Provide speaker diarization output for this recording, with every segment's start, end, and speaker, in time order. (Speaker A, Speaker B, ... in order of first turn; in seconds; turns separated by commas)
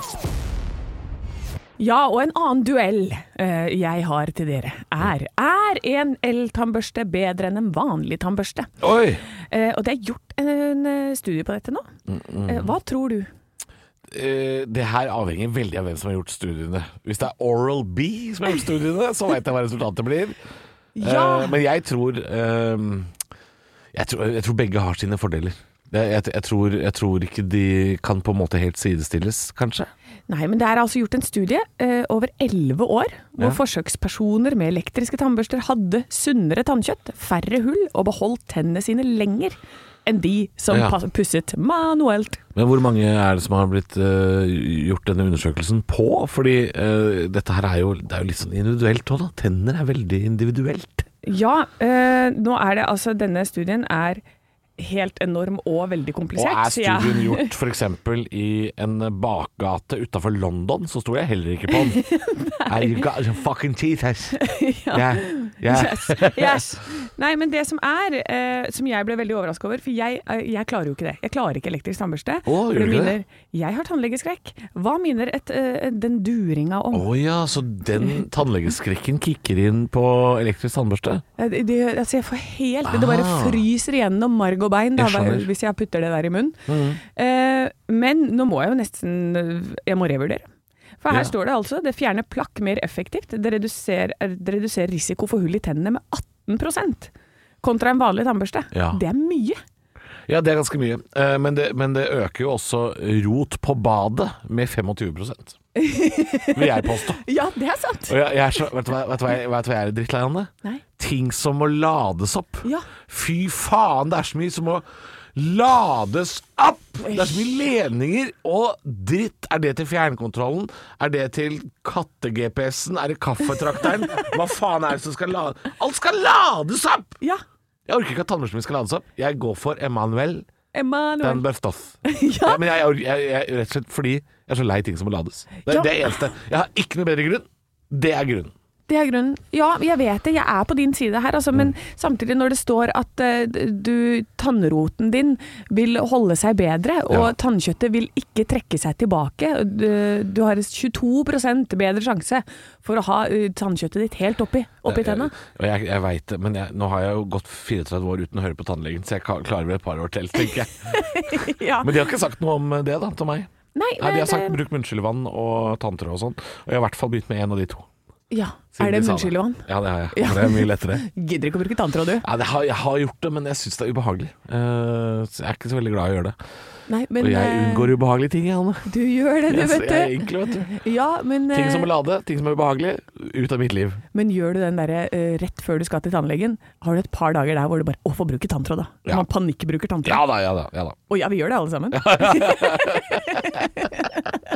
Speaker A: 1.8-8.7, Speaker B: 8.8-9.2, Speaker A: 9.5-11.9, Speaker B: 12.1-12.7, Speaker A: 12.5-13.3, Speaker B: 14.1-20.4, Speaker A: 21.0-21.6, Speaker B: 21.0-23.1, Speaker B: 23.9-29.9, Speaker A: 30.3-42.4, Speaker B: 40.7-41.0, Speaker B: 42.5-51.1, Speaker A: 51.2-54.2, Speaker A: 54.8-57.5, Speaker B: 56.4-62.0, Speaker A: 61.7-63.0, Speaker B: 62.7-66.6, Speaker A: 64.4-77.1, Speaker B: 72.5-73.2, Speaker B: 76.9-81.2, Speaker A: 81.4-90.4, Speaker B: 82.8-83.6, Speaker B: 85.0-85.5, Speaker B: 86.7-87.0, Speaker A: 91.0-99.6, Speaker B: 98.7-99.0, Speaker B: 100.3-105.6, Speaker A: 105.8-108.1, Speaker B: 106.5-107.2, Speaker B: 108.1-127.2, Speaker A: 117.0-117.4, Speaker B: 127.9-130.5, Speaker A: 130.7-131.4, Speaker B: 131.2-138.5, Speaker A: 132.1-132.6, Speaker A: 135.7-135.9, Speaker A: 138.9-155.3, Speaker B: 147.1-147.3, Speaker B: 154.8-167.9, Speaker A: 160.9-161.9, Speaker A: 163.8-164.6, Speaker A: 168.3-172.2, Speaker B: 168.8-171.1, Speaker B: 172.2-176.4, Speaker A: 176.9-177.9, Speaker B: 177.2-178.9, Speaker A: 178.9-181.9, Speaker B: 179.5-180.7, Speaker B: 181.5-184.0, Speaker A: 184.1-190.2, Speaker B: 190.0-191.0, Speaker A: 191.1-194.4, Speaker B: 191.9-193.7